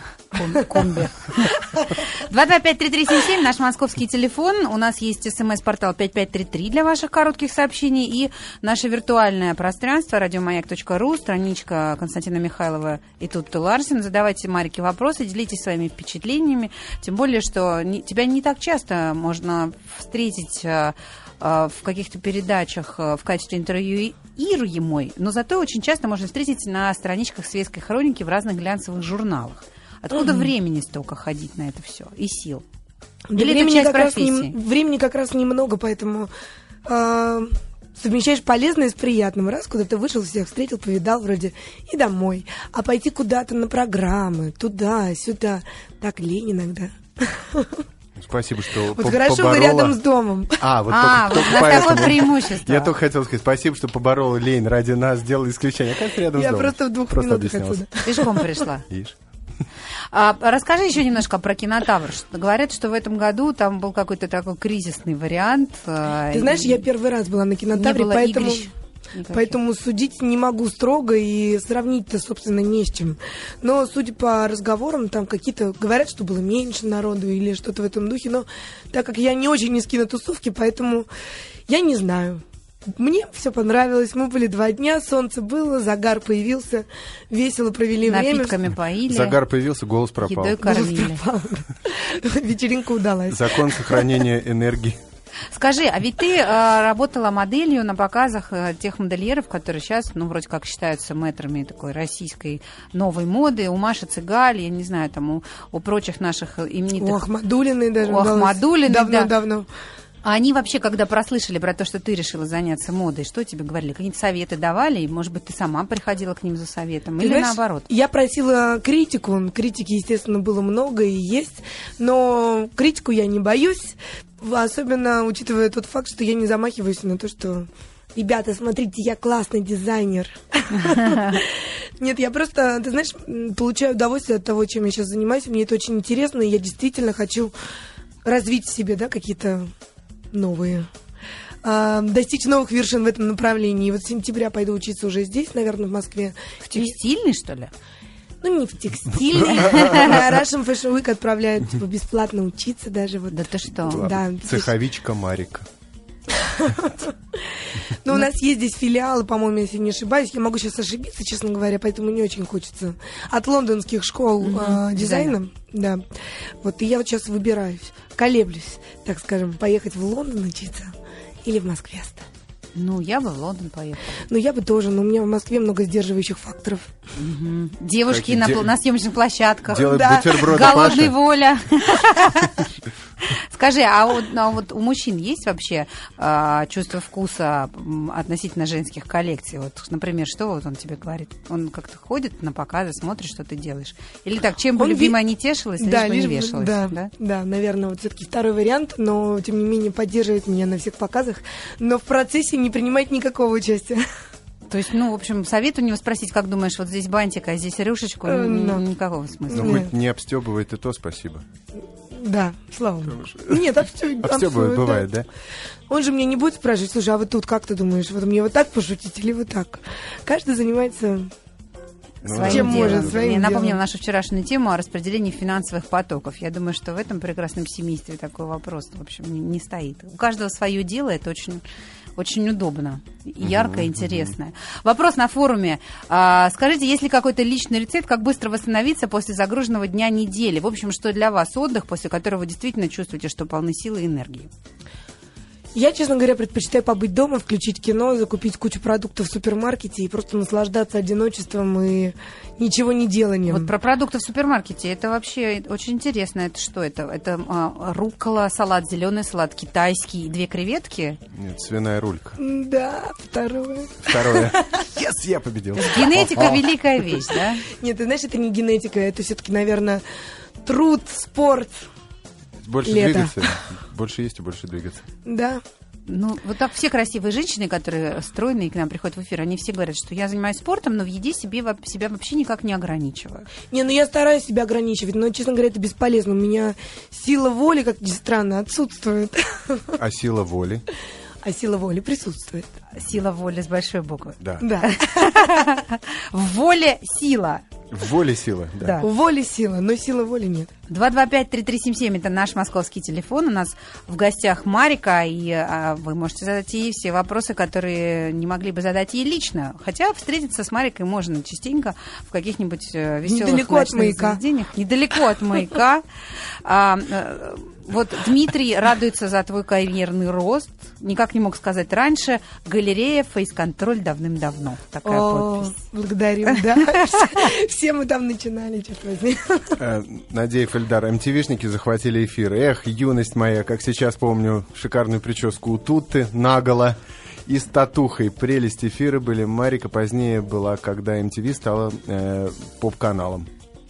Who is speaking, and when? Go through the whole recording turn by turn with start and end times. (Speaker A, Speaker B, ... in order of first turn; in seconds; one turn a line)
Speaker A: 0.3-32.6
Speaker B: 0.5-0.8
Speaker B: 33.3-36.3
Speaker A: 33.4-34.5
Speaker B: 36.8-47.8
Speaker C: 48.1-50.0
Speaker B: 48.9-50.7
Speaker C: 50.6-57.8
Speaker A: 50.9-52.9
Speaker B: 56.3-58.6
Speaker A: 58.0-58.9
Speaker C: 58.9-59.1
Speaker A: 60.1-66.9
Speaker B: 66.3-68.7
Speaker A: 67.7-69.5
Speaker B: 69.3-81.1
Speaker B: 81.7-82.4
Speaker B: 83.0-88.6
Speaker A: 88.0-89.4
Speaker C: 89.1-90.7
Speaker A: 90.2-91.2
Speaker B: 90.6-94.2
Speaker C: 93.3-95.0
Speaker A: 95.5-107.2
Speaker B: 107.0-109.7
Speaker A: 108.0-109.3
Speaker A: 110.2-117.9
Speaker B: 117.2-137.5
Speaker B: 138.2-139.7
Speaker B: 140.3-140.9
Speaker B: 141.6-146.9
Speaker A: 146.6-147.7
Speaker B: 148.4-154.7
Speaker A: 149.3-150.2
Speaker C: 149.5-150.2
Speaker A: 153.3-154.1
Speaker C: 153.8-155.7
Speaker B: 156.3-157.1
Speaker B: 157.9-166.0
Speaker A: 164.4-165.4
Speaker B: 166.6-170.9
Speaker B: 171.4-172.2
Speaker A: 172.7-174.2
Speaker B: 174.3-176.9
Speaker A: 177.2-197.1
Speaker C: 178.1-178.7
Speaker C: 179.7-181.1
Speaker B: 179.8-181.0
Speaker B: 194.8-195.2
Speaker B: 195.8-204.0
Speaker A: 204.7-209.8
Speaker B: 208.2-208.8
Speaker B: 209.5-209.9
Speaker C: 209.5-211.4
Speaker B: 212.1-215.1
Speaker C: 213.1-215.3
Speaker B: 215.9-221.3
Speaker C: 222.2-223.4
Speaker A: 222.3-231.6
Speaker B: 222.4-223.8
Speaker A: 232.2-244.5
Speaker C: 233.4-234.3
Speaker B: 245.7-253.7
Speaker A: 253.5-261.2
Speaker C: 261.3-262.4
Speaker B: 262.4-264.8
Speaker C: 264.0-266.7
Speaker A: 265.7-267.6
Speaker B: 267.8-270.0
Speaker B: 270.6-271.8
Speaker C: 272.6-275.0
Speaker B: 272.8-273.5
Speaker B: 275.2-275.6
Speaker A: 276.1-283.5
Speaker B: 283.7-290.0
Speaker C: 290.0-290.8
Speaker B: 291.4-292.7
Speaker A: 292.9-297.6
Speaker C: 294.4-294.7
Speaker B: 294.6-295.0
Speaker C: 297.9-299.0
Speaker A: 298.8-299.1
Speaker B: 299.0-300.7
Speaker A: 300.9-316.0
Speaker B: 313.2-314.4
Speaker A: 316.6-325.7
Speaker B: 325.0-329.8
Speaker A: 326.7-327.2
Speaker C: 329.8-343.5